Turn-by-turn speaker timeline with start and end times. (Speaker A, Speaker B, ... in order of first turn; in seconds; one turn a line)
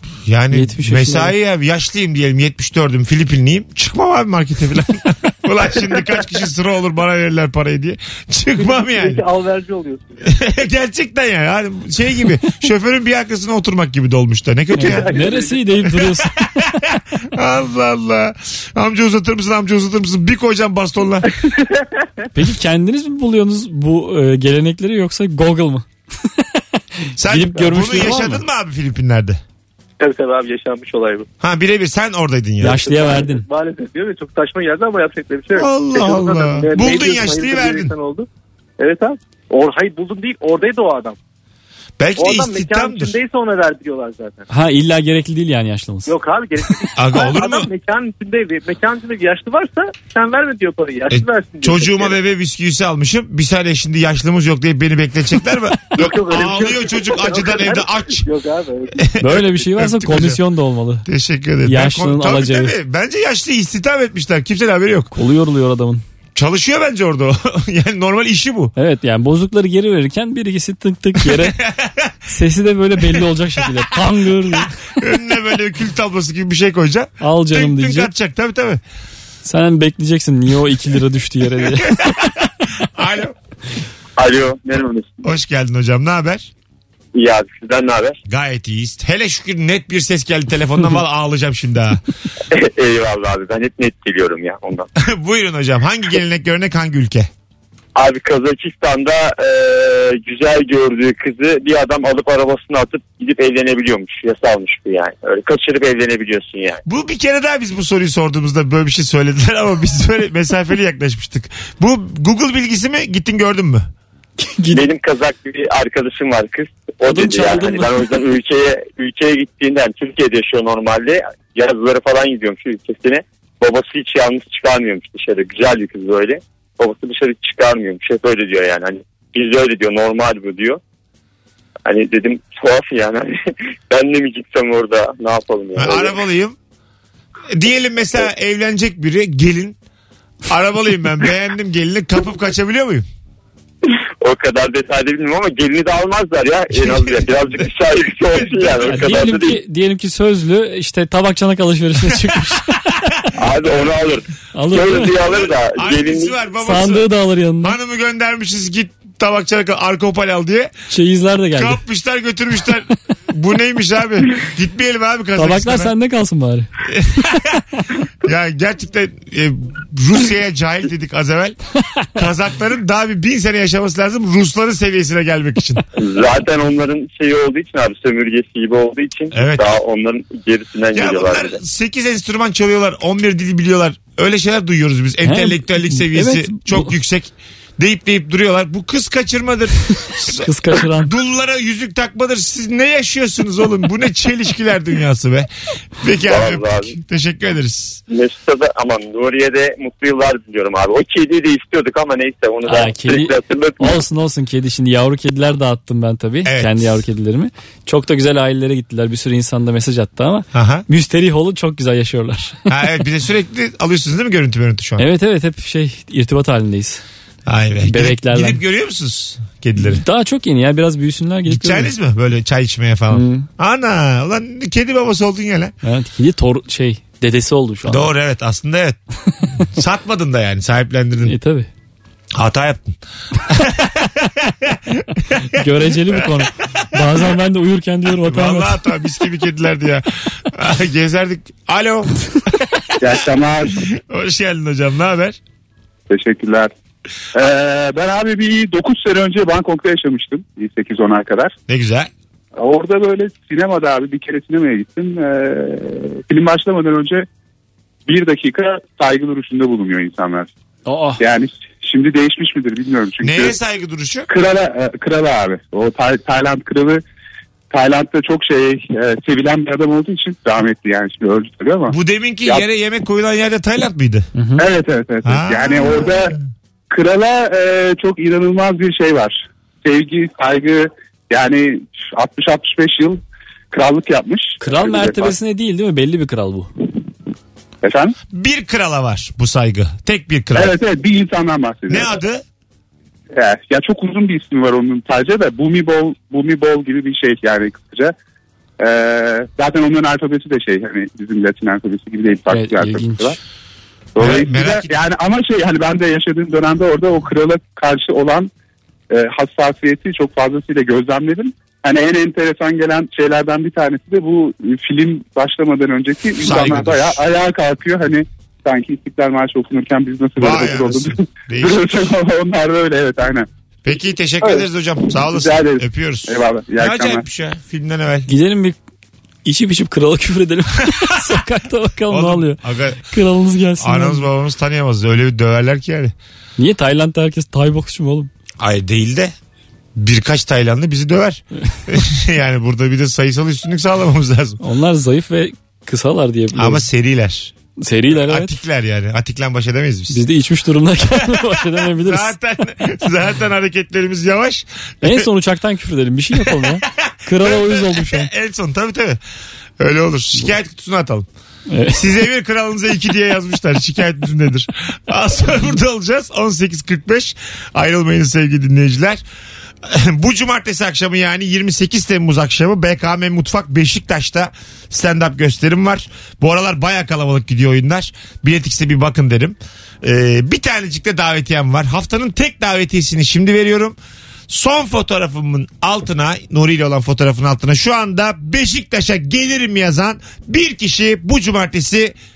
Speaker A: 0.2-9.2
Speaker B: 0.5-1.3
Speaker C: 8.5-10.2
Speaker A: 10.2-15.2
Speaker B: 14.7-16.3
Speaker C: 14.8-15.8
Speaker A: 15.9-21.3
Speaker C: 21.4-21.8
Speaker B: 22.3-25.9
Speaker B: 27.1-28.4
Speaker A: 27.2-29.4
Speaker C: 30.0-31.3
Speaker A: 31.4-32.8
Speaker B: 32.6-33.5
Speaker C: 32.7-38.3
Speaker A: 35.5-37.9
Speaker C: 38.8-41.2
Speaker A: 42.0-43.1
Speaker C: 42.2-44.5
Speaker B: 44.5-46.1
Speaker C: 46.0-52.2
Speaker A: 46.9-47.7
Speaker A: 51.1-58.3
Speaker C: 55.9-59.1
Speaker A: 59.1-60.4
Speaker B: 59.2-61.0
Speaker A: 61.0-65.1
Speaker B: 61.6-62.7
Speaker B: 65.1-66.0
Speaker A: 66.3-68.7
Speaker B: 68.8-71.6
Speaker A: 71.2-72.1
Speaker B: 72.3-74.7
Speaker A: 73.1-73.6
Speaker A: 74.5-78.8
Speaker B: 77.2-78.1
Speaker B: 79.4-82.0
Speaker A: 81.7-83.3
Speaker D: 84.2-85.2
Speaker A: 85.2-86.5
Speaker D: 87.1-88.2
Speaker A: 88.3-92.0
Speaker D: 92.5-94.9
Speaker A: 95.0-97.3
Speaker D: 97.9-106.8
Speaker A: 106.8-113.9
Speaker B: 114.4-114.8
Speaker D: 114.7-130.8
Speaker B: 117.0-118.0
Speaker D: 131.8-136.2
Speaker A: 135.8-136.6
Speaker A: 137.5-139.8
Speaker A: 140.5-143.0
Speaker D: 144.2-149.6
Speaker A: 146.7-147.7
Speaker A: 148.3-149.3
Speaker B: 148.8-153.0
Speaker D: 153.4-156.3
Speaker B: 154.5-155.2
Speaker A: 155.2-157.1
Speaker B: 156.6-157.8
Speaker A: 157.6-160.7
Speaker B: 160.9-161.8
Speaker A: 161.5-165.9
Speaker B: 165.3-166.7
Speaker A: 166.9-167.6
Speaker A: 168.2-171.6
Speaker A: 172.1-175.8
Speaker D: 175.9-181.6
Speaker A: 179.3-179.7
Speaker A: 180.9-198.0
Speaker B: 185.2-186.9
Speaker B: 190.3-191.1
Speaker D: 196.2-196.9
Speaker D: 198.1-204.0
Speaker B: 202.7-212.6
Speaker A: 206.4-207.0
Speaker A: 210.5-210.8
Speaker A: 212.7-215.1
Speaker B: 215.0-217.0
Speaker A: 217.4-220.0
Speaker B: 217.8-218.6
Speaker B: 219.8-221.9
Speaker A: 221.4-225.7
Speaker B: 223.1-223.5
Speaker B: 225.8-228.1
Speaker A: 227.8-229.0
Speaker A: 229.6-231.3
Speaker B: 231.2-231.7
Speaker A: 232.3-236.8
Speaker B: 235.5-238.8
Speaker A: 238.2-243.1
Speaker E: 243.0-243.8
Speaker A: 243.8-245.4
Speaker E: 246.1-246.7
Speaker E: 247.3-251.5
Speaker A: 251.7-252.1
Speaker E: 252.6-257.2
Speaker E: 258.1-260.5
Speaker B: 260.9-261.2
Speaker E: 261.2-263.5
Speaker A: 263.2-264.3
Speaker E: 264.3-267.0
Speaker E: 267.7-271.9
Speaker A: 271.9-274.3
Speaker B: 274.3-274.6
Speaker E: 274.6-276.4
Speaker A: 275.2-276.4
Speaker E: 276.9-283.2
Speaker E: 283.7-285.3
Speaker B: 284.6-286.7
Speaker E: 287.8-288.1
Speaker A: 288.3-290.8
Speaker E: 290.5-292.1
Speaker A: 291.9-292.4
Speaker E: 293.3-298.1
Speaker E: 298.8-303.4
Speaker B: 302.5-303.4
Speaker E: 304.1-308.5
Speaker A: 304.2-305.0
Speaker E: 309.1-323.5
Speaker A: 316.4-317.2
Speaker A: 320.4-321.9
Speaker A: 323.8-328.3
Speaker E: 325.2-327.2
Speaker B: 328.3-328.8
Speaker B: 329.4-334.3
Speaker A: 332.1-333.0
Speaker A: 333.8-336.1
Speaker B: 336.6-338.3
Speaker A: 338.6-339.3
Speaker A: 339.9-344.6
Speaker B: 344.6-346.8
Speaker A: 346.5-347.5
Speaker B: 347.8-348.5
Speaker A: 348.1-350.2
Speaker B: 350.1-352.3
Speaker A: 351.4-355.3
Speaker B: 355.0-358.3
Speaker A: 356.4-359.2
Speaker A: 359.8-361.3
Speaker B: 361.7-362.0
Speaker A: 361.9-369.2
Speaker A: 369.8-384.0
Speaker A: 384.5-392.1